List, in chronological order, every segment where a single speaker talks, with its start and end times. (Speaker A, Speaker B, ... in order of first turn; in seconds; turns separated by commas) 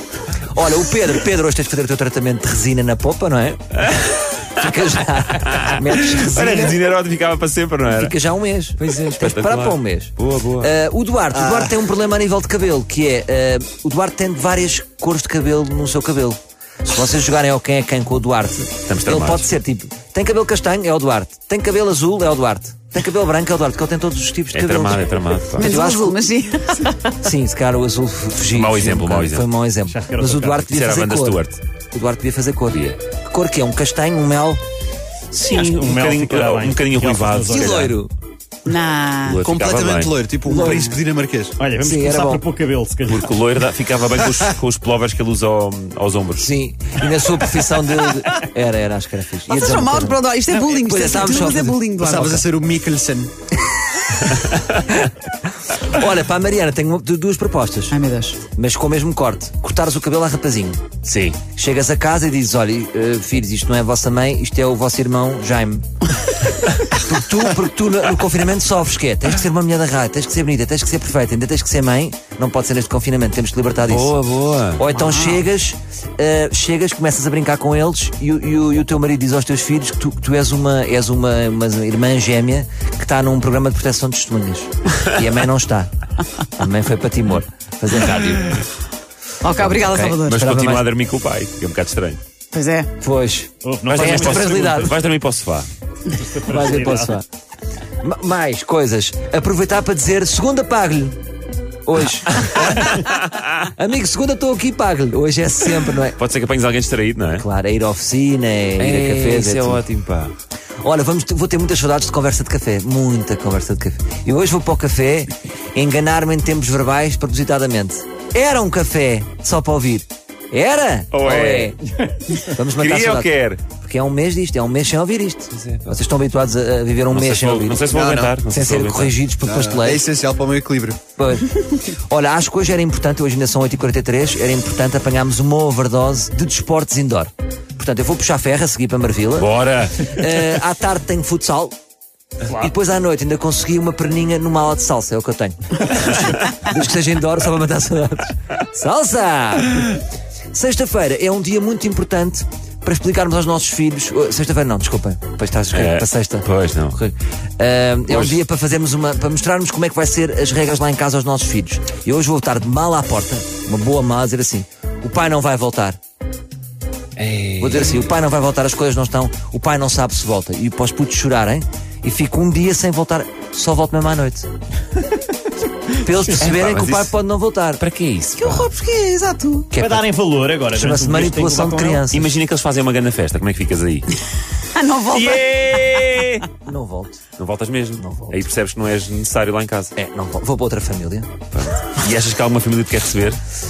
Speaker A: 0.5-3.8, Speaker B: 3.9-4.4, Speaker A: 4.5-6.8, Speaker B: 5.3-8.1, Speaker A: 7.9-26.2, Speaker B: 8.8-10.7, Speaker C: 11.3-11.8, Speaker B: 18.9-19.5, Speaker B: 24.5-25.8, Speaker D: 25.6-27.2, Speaker A: 27.2-34.6, Speaker B: 28.4-29.4, Speaker E: 29.9-30.7, Speaker B: 30.7-31.6, Speaker B: 32.7-33.0, Speaker B: 35.3-38.0, Speaker E: 35.5-38.0, Speaker A: 37.5-38.1, Speaker D: 38.6-39.4, Speaker B: 39.2-40.7, Speaker C: 39.4-41.6, Speaker D: 40.5-41.0, Speaker E: 41.6-43.2, Speaker A: 41.8-42.4, Speaker B: 43.1-46.5, Speaker A: 46.4-51.8, Speaker D: 49.5-52.4, Speaker C: 52.0-53.3, Speaker A: 54.0-55.1, Speaker A: 55.7-58.0, Speaker D: 57.9-58.4, Speaker A: 58.5-60.9, Speaker B: 61.0-61.4, Speaker A: 61.5-65.9, Speaker A: 66.8-85.9, Speaker B: 73.8-74.8, Speaker D: 74.9-75.4, Speaker A: 86.5-88.7, Speaker D: 89.4-90.5, Speaker A: 89.4-90.8, Speaker B: 90.2-92.2, Speaker D: 92.5-92.9, Speaker A: 93.0-94.9, Speaker E: 93.6-94.9, Speaker B: 93.9-95.7, Speaker E: 96.1-97.2, Speaker A: 96.4-97.2, Speaker A: 98.0-101.2, Speaker A: 101.9-103.0, Speaker B: 102.4-103.5, Speaker A: 103.6-106.2, Speaker B: 106.2-107.5, Speaker A: 107.4-109.8, Speaker B: 108.8-110.3, Speaker A: 110.8-121.8, Speaker B: 121.1-121.8, Speaker A: 122.3-127.8, Speaker B: 122.6-123.6, Speaker B: 125.5-125.9, Speaker B: 127.1-129.2, Speaker C: 127.9-128.3, Speaker A: 128.5-130.0, Speaker C: 129.5-131.0, Speaker A: 131.2-141.8, Speaker B: 139.4-140.6, Speaker A: 142.5-150.0, Speaker A: 150.5-166.0, Speaker B: 155.7-157.0, Speaker B: 158.1-158.4, Speaker B: 167.2-168.1, Speaker A: 167.6-174.5, Speaker A: 175.9-177.8, Speaker B: 176.3-177.1, Speaker B: 177.8-178.7, Speaker D: 178.4-179.8, Speaker A: 179.7-180.1, Speaker E: 179.8-182.0, Speaker A: 180.7-182.3, Speaker B: 182.1-184.2, Speaker D: 184.7-186.0, Speaker B: 185.1-186.5, Speaker A: 186.6-187.2, Speaker B: 187.4-189.9, Speaker A: 188.0-188.4, Speaker A: 190.0-191.3, Speaker B: 191.5-193.4